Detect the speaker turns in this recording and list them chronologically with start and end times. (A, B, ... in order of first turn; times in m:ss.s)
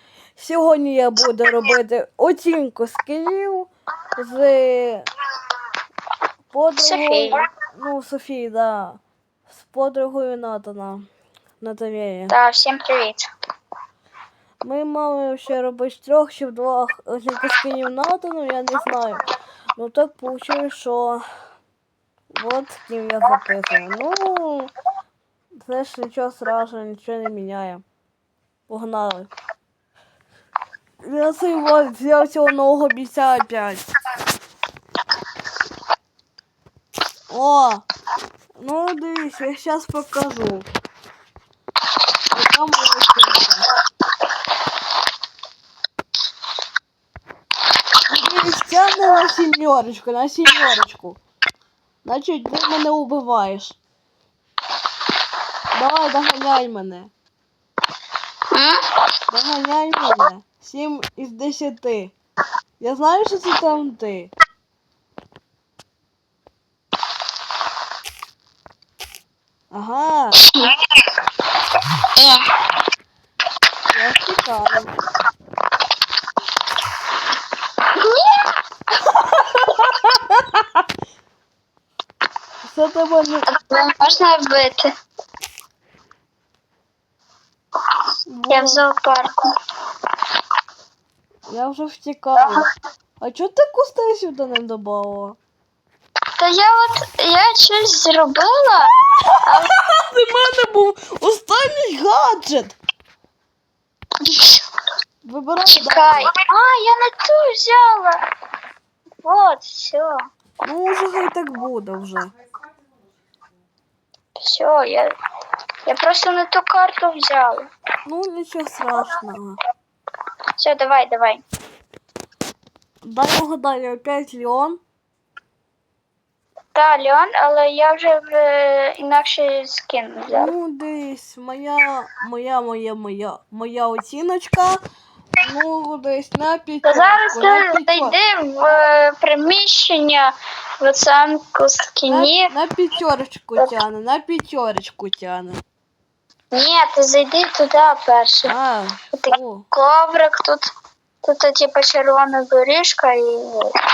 0:00.4-0:05.0 A
0:06.5-0:11.0 A
0:06.8-0:07.5 B
0:11.6-0:12.3 A
0:12.3-0:13.2 B
0:14.6-0:19.2 A
0:19.8-0:21.2 A
0:22.3-0:24.7 A
0:25.6-0:27.8 A
0:28.7-0:29.3 A
0:31.0-0:33.8 A
0:37.3-0:37.8 A
0:38.6-0:40.7 A
0:42.3-0:43.7 A
0:48.1-0:51.2 A
0:52.0-0:53.8 A
0:55.7-0:57.1 A
0:59.3-1:02.1 A
1:02.8-1:04.3 A
1:09.7-1:10.5 A
1:12.2-1:12.4 B
1:13.9-1:14.9 A
1:18.0-1:18.5 B
1:19.1-1:20.6 A
1:22.6-1:23.5 A
1:23.5-1:24.9 B
1:28.3-1:28.8 A
1:28.5-1:29.4 B
1:31.5-1:32.6 A
1:32.4-1:32.6 B
1:33.2-1:35.4 A
1:36.4-1:38.9 B
1:39.2-1:42.8 A
1:39.4-1:39.7 B
1:44.2-1:44.6 B
1:45.2-1:46.3 A
1:45.7-1:48.2 B
1:49.2-1:50.1 B
1:50.6-1:52.3 A
1:54.4-1:55.1 B
1:55.8-1:57.7 B
1:58.0-1:59.6 A
2:00.6-2:01.4 B
2:03.0-2:04.8 A
2:06.7-2:10.5 B
2:10.3-2:14.8 A
2:15.4-2:18.1 A
2:16.8-2:22.5 B
2:22.1-2:25.6 A
2:26.5-2:28.5 B
2:28.5-2:29.6 A
2:29.1-2:30.7 B
2:31.2-2:33.7 B